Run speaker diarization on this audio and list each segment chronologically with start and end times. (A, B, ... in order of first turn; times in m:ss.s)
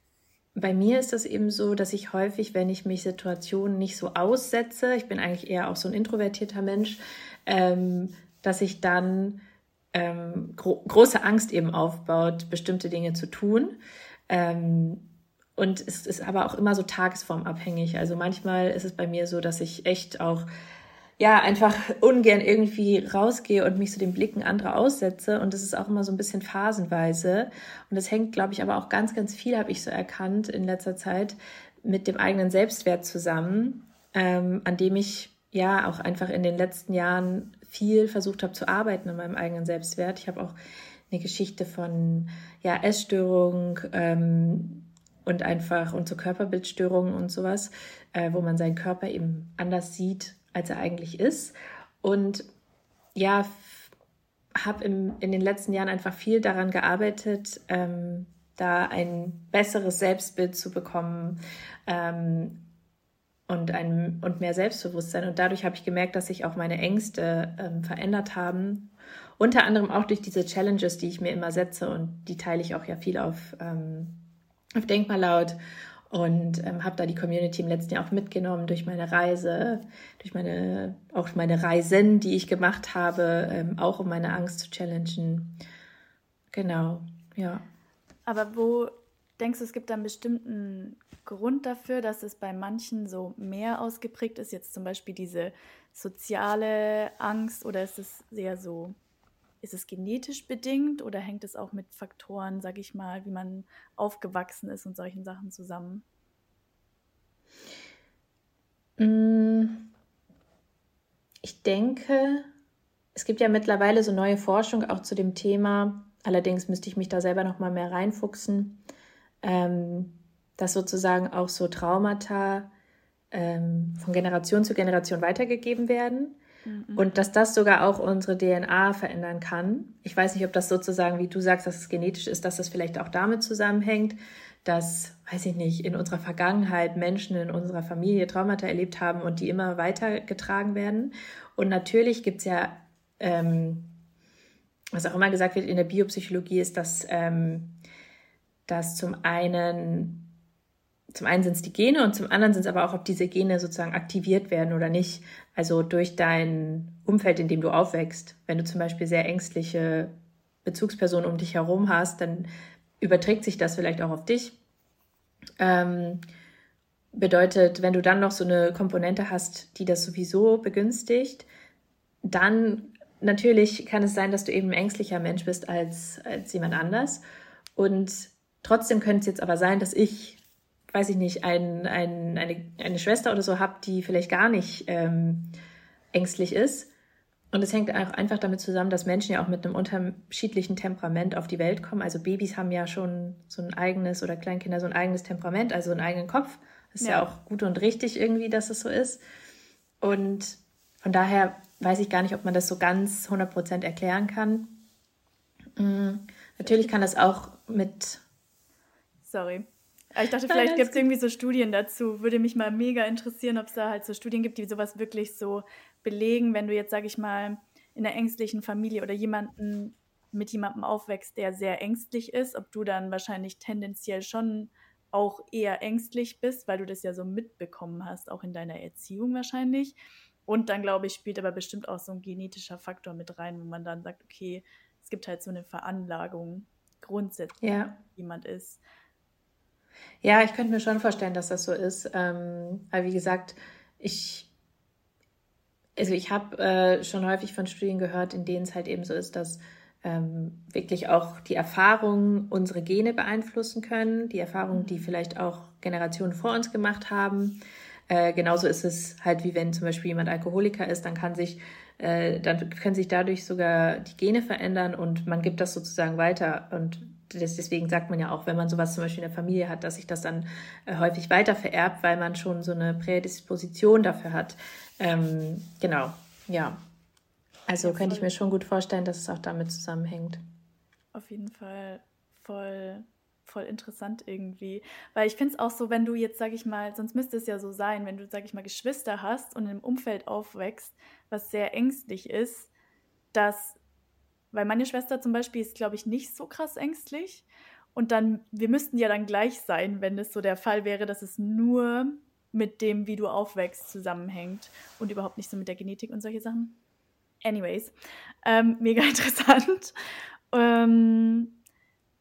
0:00.6-0:09.4 A
0:09.9-0:13.8 A
0:14.3-0:20.4 A
0:21.2-0:40.6 A
0:41.1-0:52.4 A
0:53.2-0:53.9 A
0:54.6-1:02.6 A
1:03.5-1:14.2 A
1:14.8-1:15.6 A
1:16.1-1:25.6 A
1:26.5-1:27.6 A
1:28.2-1:39.0 B
1:39.6-1:46.0 B
1:49.0-1:49.9 A
1:51.4-1:52.5 A
1:53.1-1:58.8 A
1:59.4-2:02.7 A
2:03.3-2:06.4 A
2:06.6-2:07.1 B
2:07.0-2:24.0 A
2:24.9-2:27.8 A
2:28.7-2:30.3 A
2:31.1-2:40.1 A
2:40.6-2:42.5 A
2:43.0-2:44.6 A
2:45.6-2:46.2 A
2:47.1-2:51.4 A
2:52.2-2:57.2 A
2:57.8-3:00.4 A
3:00.9-3:05.5 A
3:06.1-3:06.9 A
3:07.5-3:19.2 A
3:17.0-3:17.3 B
3:20.0-3:24.8 A
3:25.8-3:28.2 A
3:29.2-3:58.8 B
3:30.5-3:31.0 A
3:57.6-3:58.0 A
4:00.2-4:04.5 A
4:06.0-4:36.8 A
4:14.7-4:15.1 B
4:37.7-4:40.4 A
4:37.8-4:38.3 B
4:41.1-4:52.7 B
4:53.3-4:53.8 B
4:54.5-5:06.8 B
5:07.4-5:09.9 B
5:10.5-5:11.6 B